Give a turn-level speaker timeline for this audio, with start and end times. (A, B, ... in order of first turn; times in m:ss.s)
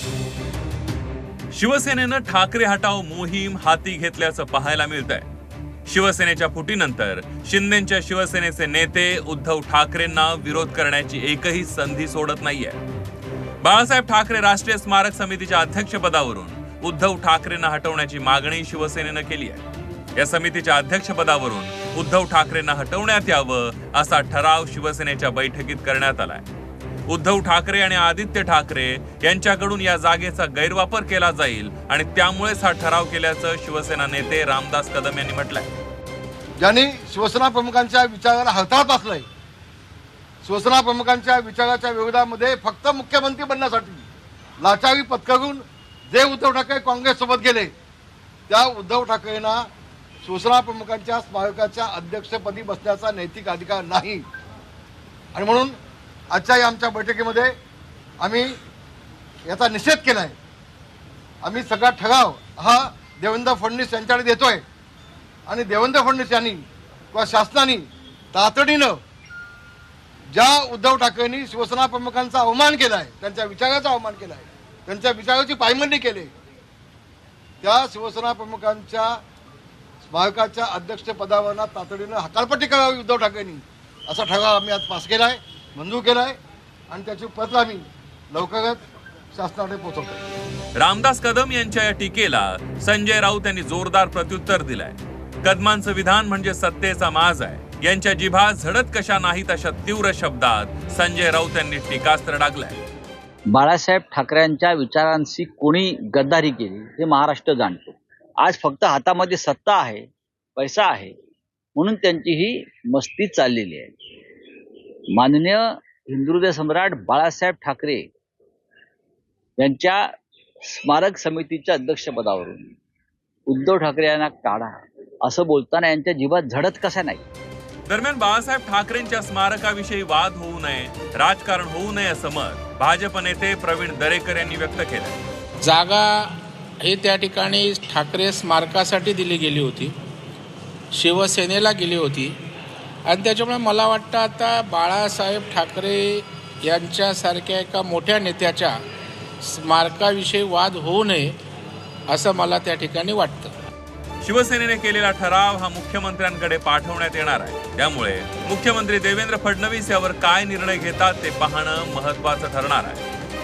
0:01.5-0:05.3 A
0:05.9-0:12.8 A
0:13.6-0:19.6 A
0:20.2-0:26.5 A
0:27.1-0:35.7 A
0:36.6-0:39.2 B
0:40.4-0:44.0 B
0:44.6-0:47.7 B
0:48.5-0:49.7 B
0:50.2-0:54.2 B
0:55.3-0:55.8 B
0:56.3-0:57.5 B
0:58.2-0:58.6 B
0:59.4-1:00.4 B
1:01.4-1:04.6 B
1:05.5-1:09.0 B
1:10.3-1:16.3 B
1:17.6-1:19.2 B
1:20.1-1:26.4 B
1:26.9-1:28.8 B
1:29.3-1:30.2 B
1:30.8-1:42.8 A
1:43.5-1:51.1 C
1:51.8-1:53.9 C
1:55.1-1:58.1 C
1:59.6-2:02.8 C
2:03.5-2:07.2 C
2:07.9-2:15.2 A
2:15.6-2:20.0 D
2:20.9-2:22.4 D
2:23.0-2:28.8 D
2:29.4-2:31.4 D
2:32.1-2:33.5 D
2:34.2-2:43.0 A